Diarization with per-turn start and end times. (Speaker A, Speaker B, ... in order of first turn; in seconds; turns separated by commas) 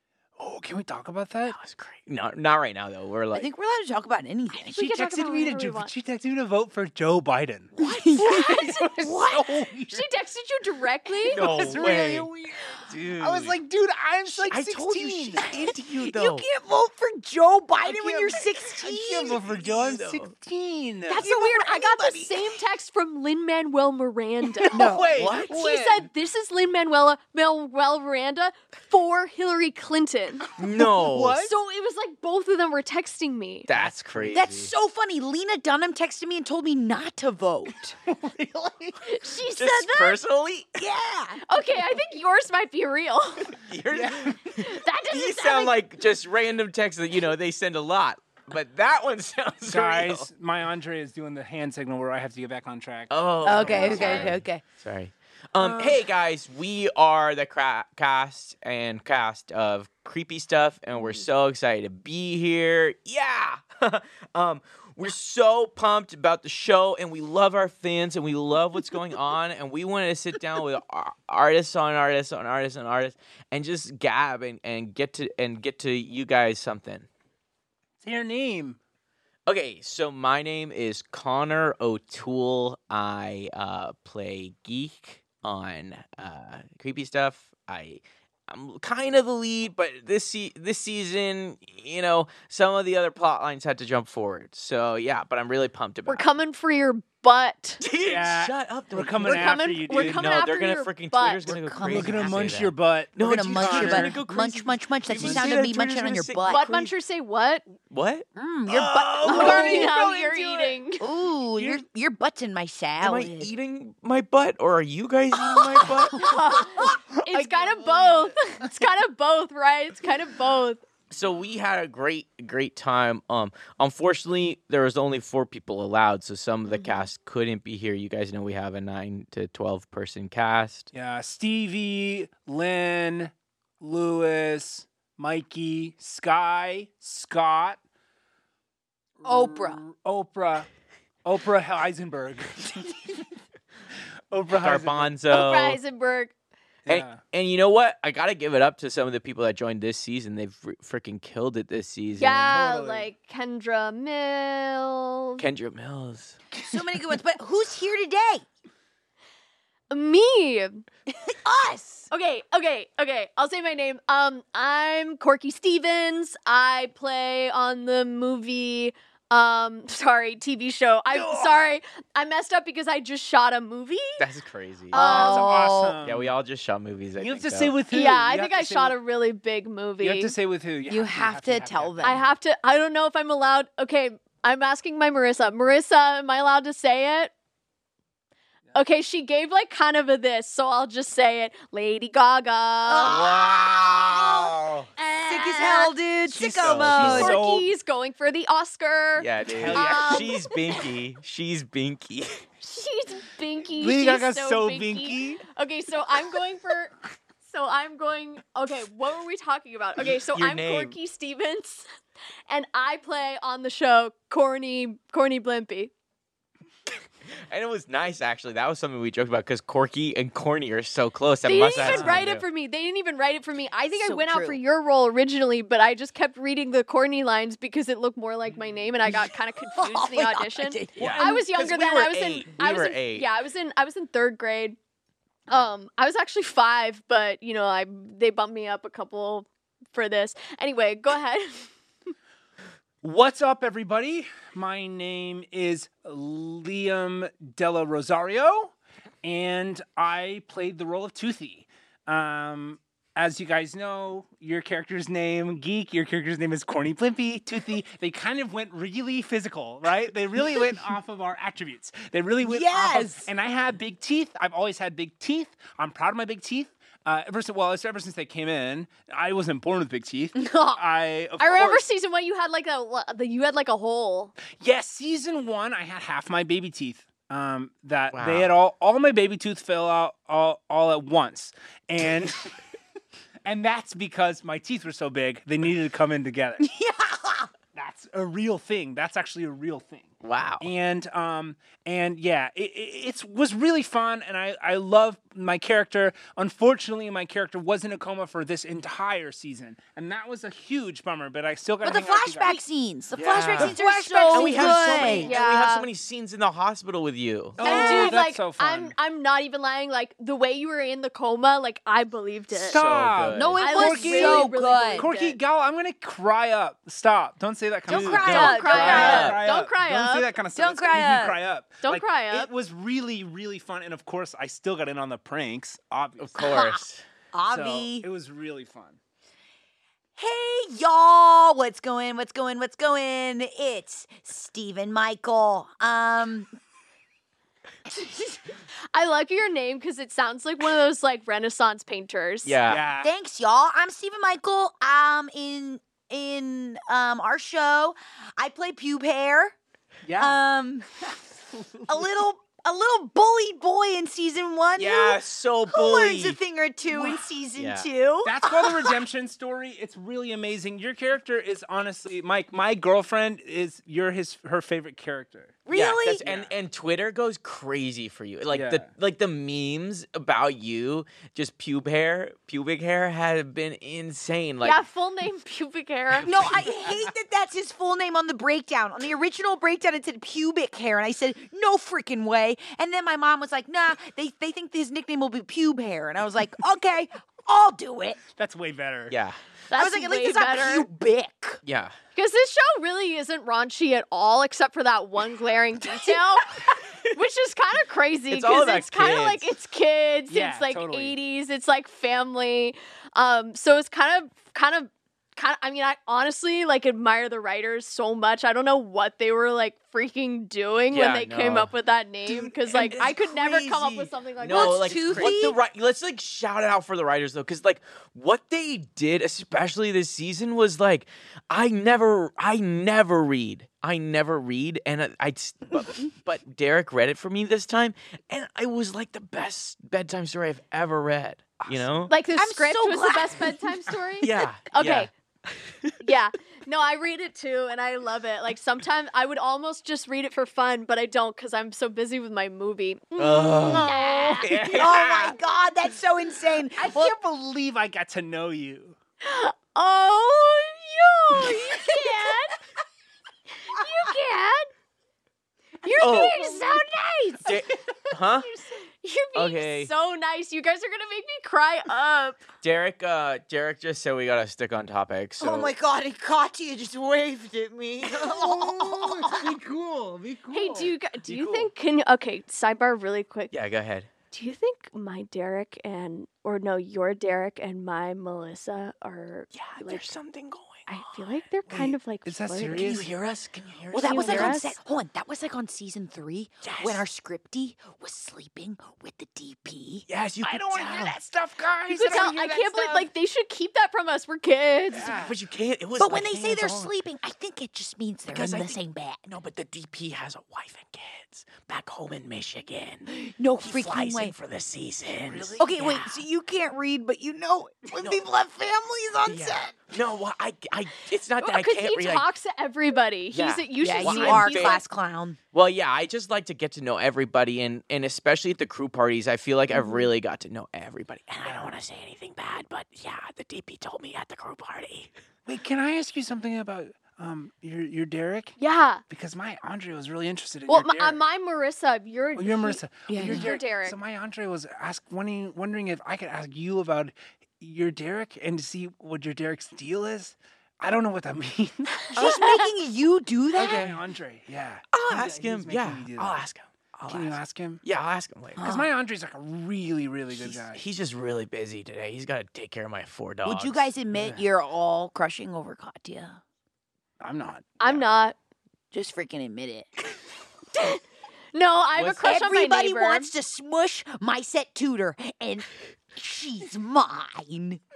Speaker A: 0.4-1.6, Speaker B: 1.5-3.5, Speaker C: 3.3-4.9, Speaker D: 4.5-5.9, Speaker A: 4.8-10.1, Speaker C: 7.8-9.4, Speaker D: 8.2-9.2, Speaker D: 9.9-11.6, Speaker B: 11.3-12.3, Speaker A: 11.3-15.5, Speaker C: 11.6-12.3, Speaker B: 12.9-13.6, Speaker B: 14.3-16.5, Speaker C: 15.4-19.4, Speaker A: 17.8-21.3, Speaker B: 19.2-20.3, Speaker D: 21.1-24.9, Speaker C: 21.1-22.6, Speaker C: 24.6-25.2, Speaker A: 24.7-26.1, Speaker B: 24.8-25.6, Speaker D: 25.4-30.5, Speaker B: 30.6-31.5, Speaker A: 30.8-31.5, Speaker D: 31.4-33.7, Speaker B: 33.7-34.7, Speaker A: 33.7-34.4, Speaker C: 34.3-38.0, Speaker A: 38.0-39.2, Speaker D: 39.0-40.2, Speaker B: 39.6-40.9, Speaker C: 40.8-41.6, Speaker D: 41.4-43.6, Speaker B: 43.5-50.3, Speaker A: 43.9-44.4, Speaker D: 44.5-45.8, Speaker A: 49.6-54.1, Speaker B: 53.1-77.1, Speaker C: 53.4-54.6, Speaker D: 53.6-54.3, Speaker C: 55.6-56.0, Speaker A: 78.0-78.8, Speaker B: 79.5-96.3, Speaker D: 96.1-97.8, Speaker B: 97.8-106.9, Speaker A: 98.0-100.3, Speaker D: 99.2-101.4, Speaker C: 101.5-102.4, Speaker A: 101.8-104.2, Speaker C: 103.2-106.7, Speaker A: 105.1-105.5, Speaker D: 106.5-107.7, Speaker B: 107.9-109.9, Speaker C: 108.4-113.5, Speaker A: 109.2-110.2, Speaker D: 109.3-111.1, Speaker B: 113.0-118.3, Speaker D: 115.5-120.8, Speaker C: 115.9-116.3, Speaker B: 121.1-130.9, Speaker A: 130.9-137.8, Speaker A: 139.2-140.7, Speaker C: 139.2-139.8, Speaker A: 141.2-143.3, Speaker A: 144.3-145.1, Speaker B: 144.6-145.8, Speaker D: 145.3-146.3, Speaker A: 146.9-147.2, Speaker B: 146.9-152.6, Speaker D: 152.2-155.4, Speaker A: 152.5-153.1, Speaker B: 155.4-156.4, Speaker A: 156.6-156.8, Speaker C: 156.7-158.4, Speaker D: 159.9-160.8, Speaker C: 161.1-162.1, Speaker D: 162.1-174.2, Speaker A: 171.2-171.6, Speaker B: 174.2-175.2, Speaker C: 174.9-176.0, Speaker D: 175.0-175.5, Speaker A: 175.0-176.3, Speaker B: 176.0-177.8, Speaker A: 177.2-179.0, Speaker D: 177.9-180.3, Speaker A: 180.0-182.2, Speaker C: 180.9-182.2, Speaker D: 182.0-187.3, Speaker D: 188.7-193.2, Speaker C: 192.9-194.6, Speaker B: 193.1-194.9, Speaker D: 195.0-195.9, Speaker C: 195.1-197.4, Speaker A: 196.3-197.7, Speaker B: 196.6-197.4, Speaker D: 197.0-200.6, Speaker B: 199.2-202.4, Speaker A: 199.4-200.3, Speaker D: 202.6-206.9, Speaker A: 203.8-205.4, Speaker D: 207.4-211.9, Speaker B: 210.2-211.0, Speaker D: 212.5-215.9, Speaker B: 217.5-222.4, Speaker D: 221.4-234.8, Speaker A: 221.8-222.3, Speaker C: 223.9-224.6, Speaker C: 229.1-231.4, Speaker B: 231.0-233.3, Speaker D: 235.5-241.7, Speaker A: 243.0-271.8, Speaker C: 262.4-263.3, Speaker C: 270.4-270.8, Speaker D: 271.4-274.3, Speaker A: 274.5-282.5, Speaker B: 278.1-278.5, Speaker A: 283.4-286.7, Speaker C: 286.6-287.5, Speaker A: 287.7-302.6, Speaker B: 290.2-290.7, Speaker C: 301.8-305.4, Speaker A: 303.1-305.3, Speaker B: 303.3-307.6, Speaker D: 303.8-304.4, Speaker D: 305.2-305.9, Speaker A: 307.6-308.9, Speaker C: 307.6-308.1, Speaker D: 307.6-312.8, Speaker A: 312.5-326.6, Speaker B: 312.7-313.7, Speaker C: 313.3-315.1, Speaker D: 313.6-315.4, Speaker C: 317.9-319.4, Speaker B: 317.9-319.4, Speaker D: 318.1-320.3, Speaker C: 320.6-321.4, Speaker D: 321.8-322.5, Speaker B: 326.2-327.0, Speaker C: 326.4-328.1, Speaker A: 327.5-329.0, Speaker C: 330.2-336.5, Speaker D: 338.9-342.6, Speaker B: 342.4-342.8, Speaker A: 342.7-343.1, Speaker C: 343.0-349.6, Speaker A: 350.1-350.4, Speaker C: 350.2-350.9, Speaker C: 351.9-359.0, Speaker B: 354.8-356.4, Speaker B: 356.9-357.9, Speaker A: 358.2-365.6, Speaker C: 365.7-366.3, Speaker B: 365.7-374.8, Speaker A: 366.2-366.5, Speaker A: 368.5-368.9, Speaker D: 374.6-376.5, Speaker C: 376.2-388.2, Speaker A: 388.4-389.2, Speaker B: 389.1-389.4, Speaker D: 389.7-390.9, Speaker C: 389.7-391.6, Speaker B: 391.6-391.9, Speaker D: 392.1-415.4, Speaker B: 398.3-399.5, Speaker A: 400.3-401.2, Speaker B: 410.9-411.7, Speaker B: 412.3-432.1, Speaker C: 414.4-415.6, Speaker D: 432.1-435.1, Speaker C: 432.4-433.7, Speaker B: 434.2-436.0, Speaker D: 436.0-444.6, Speaker B: 443.2-444.0, Speaker C: 443.7-447.2, Speaker A: 443.8-445.4, Speaker B: 444.5-444.9, Speaker A: 446.8-449.0, Speaker D: 449.2-452.6, Speaker D: 453.6-454.7, Speaker D: 455.8-457.6, Speaker B: 456.0-456.5, Speaker C: 456.0-456.8, Speaker B: 457.4-458.5, Speaker A: 458.1-458.8, Speaker D: 459.0-462.4, Speaker B: 459.4-459.9, Speaker B: 462.6-465.7, Speaker C: 465.4-469.6, Speaker A: 468.1-471.7, Speaker D: 470.5-473.5, Speaker B: 473.5-474.1, Speaker D: 474.3-480.1, Speaker B: 479.5-481.3, Speaker D: 480.9-483.0, Speaker A: 481.7-483.1, Speaker B: 482.7-484.6, Speaker C: 483.9-490.1, Speaker D: 484.0-484.8, Speaker B: 486.6-487.0, Speaker B: 490.1-491.2, Speaker A: 490.4-493.1, Speaker D: 491.9-495.2, Speaker A: 494.9-495.4, Speaker B: 495.1-496.9, Speaker C: 496.0-499.2, Speaker B: 498.3-506.2, Speaker C: 503.1-504.4, Speaker A: 505.3-505.7, Speaker C: 505.6-509.9, Speaker B: 509.2-512.3, Speaker D: 511.4-514.8, Speaker B: 513.3-514.8, Speaker C: 513.8-515.4, Speaker B: 515.5-525.1, Speaker A: 525.5-528.6, Speaker D: 528.6-529.0, Speaker A: 529.1-531.2, Speaker D: 530.7-534.0, Speaker A: 532.4-542.4, Speaker C: 533.1-533.6, Speaker C: 542.1-544.0, Speaker D: 542.2-542.7, Speaker A: 543.5-546.4, Speaker B: 544.9-548.7, Speaker A: 547.1-547.8, Speaker C: 548.6-548.9, Speaker A: 548.6-550.8, Speaker B: 550.3-553.9, Speaker C: 553.5-556.4, Speaker A: 554.1-554.4, Speaker A: 557.2-557.8, Speaker D: 557.8-558.4, Speaker C: 558.9-560.1, Speaker D: 560.7-561.0, Speaker D: 561.5-563.3, Speaker C: 562.2-567.8